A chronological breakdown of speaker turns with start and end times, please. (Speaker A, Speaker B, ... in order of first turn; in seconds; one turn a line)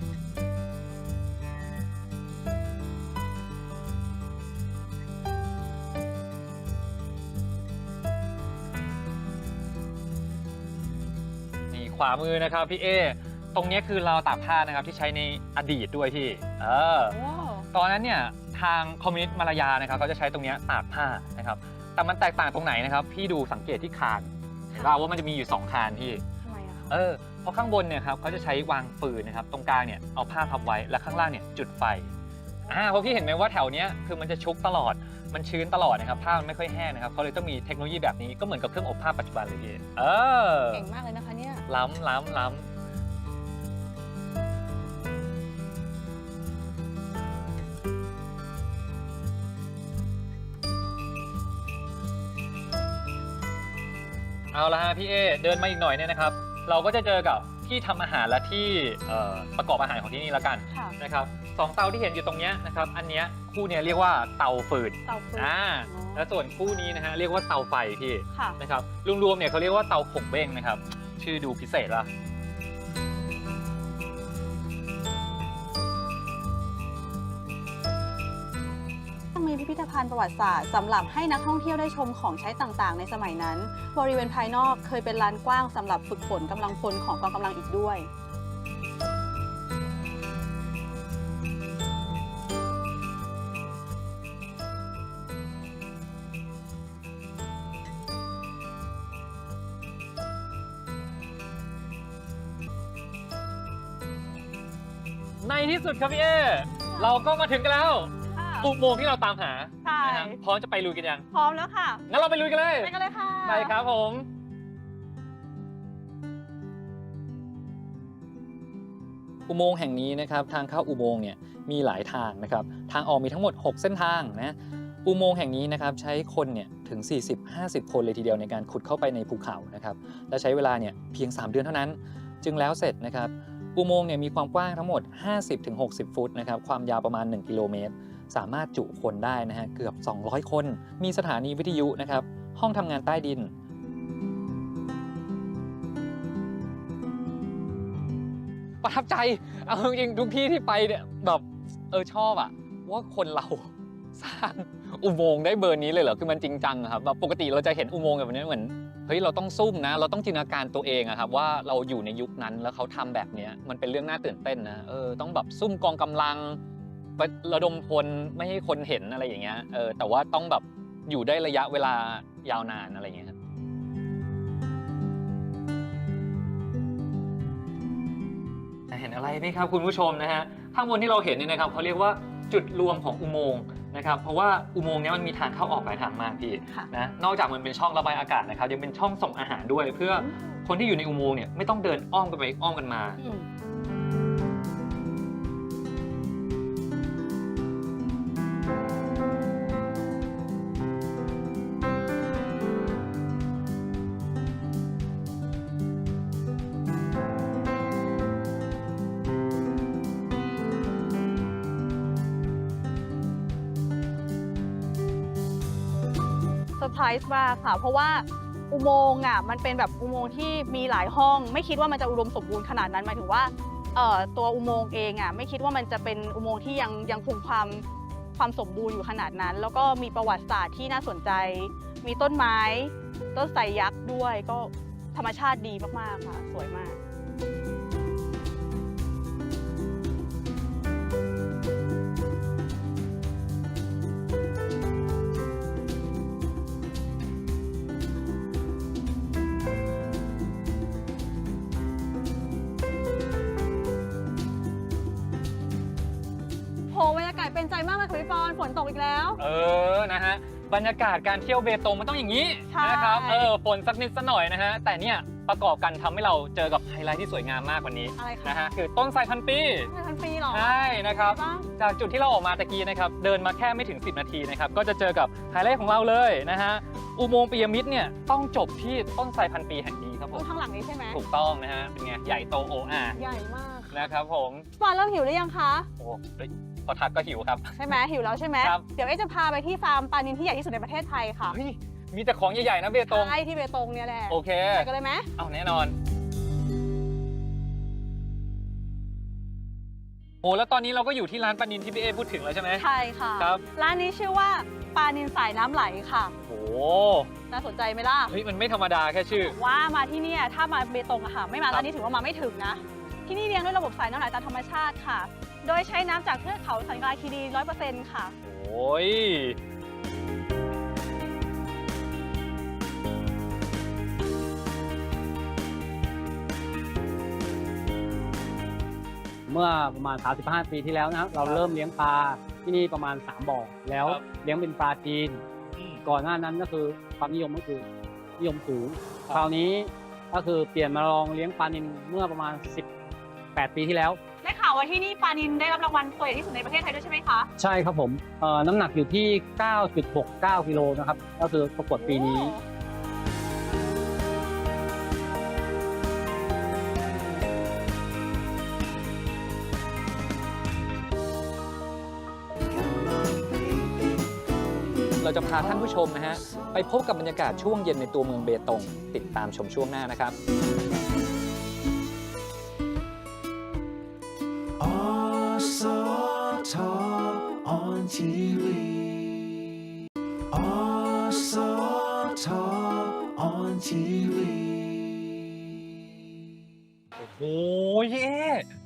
Speaker A: 11.7-17.1
Speaker B: 17.1-17.7
Speaker A: 17.7-26.2
Speaker B: 26.4-26.9
Speaker A: 26.9-32.1
Speaker B: 32.6-33.3
Speaker A: 32.7-40.9
Speaker B: 40.7-41.7
Speaker A: 41.7-42.7
Speaker A: 54.5-72.1
Speaker B: 60.7-61.0
Speaker B: 65.1-66.3
Speaker B: 68.3-68.6
Speaker B: 79.3-88.1
Speaker A: 105.4-108.1
Speaker B: 106.9-107.2
Speaker B: 108.3-108.7
Speaker A: 108.6-111.2
Speaker B: 109.8-110.4
Speaker B: 111.3-112.0
Speaker A: 112.1-112.9
Speaker B: 112.8-113.8
Speaker A: 113.5-114.3
Speaker A: 119.5-143.5
Speaker A: 148.8-166.6
Speaker A: 167.2-173.4
Speaker A: 178.9-193.2
Speaker B: 193.2-193.5
Speaker B: 216.8-227.8
Speaker B: 228.4-237.0
Speaker B: 256.9-259.4
Speaker A: 259.4-269.9
Speaker B: 262.7-263.5
Speaker B: 268.2-268.7
Speaker B: 269.8-271.7
Speaker A: 270.5-280.4
Speaker B: 280.3-281.2
Speaker A: 281.1-283.2
Speaker B: 283.1-284.1
Speaker A: 283.9-284.7
Speaker B: 284.8-285.9
Speaker A: 286.0-288.0
Speaker B: 287.8-291.6
Speaker A: 288.6-288.9
Speaker A: 291.5-293.4
Speaker B: 293.1-295.3
Speaker A: 294.3-295.9
Speaker A: 300.4-302.8
Speaker B: 302.8-306.4
Speaker A: 306.4-307.3
Speaker B: 307.5-308.4
Speaker A: 308.3-309.6
Speaker B: 309.3-318.3
Speaker A: 318.4-319.6
Speaker C: 329.5-335.4
Speaker C: 336.0-337.9
Speaker C: 338.4-342.9
Speaker C: 343.6-344.2
Speaker B: 344.4-347.5
Speaker C: 347.6-352.6
Speaker B: 352.0-352.6
Speaker A: 365.2-370.4
Speaker D: 375.5-375.9
Speaker D: 377.7-378.5
Speaker D: 382.3-382.8
Speaker D: 383.4-384.6
Speaker A: 387.2-388.7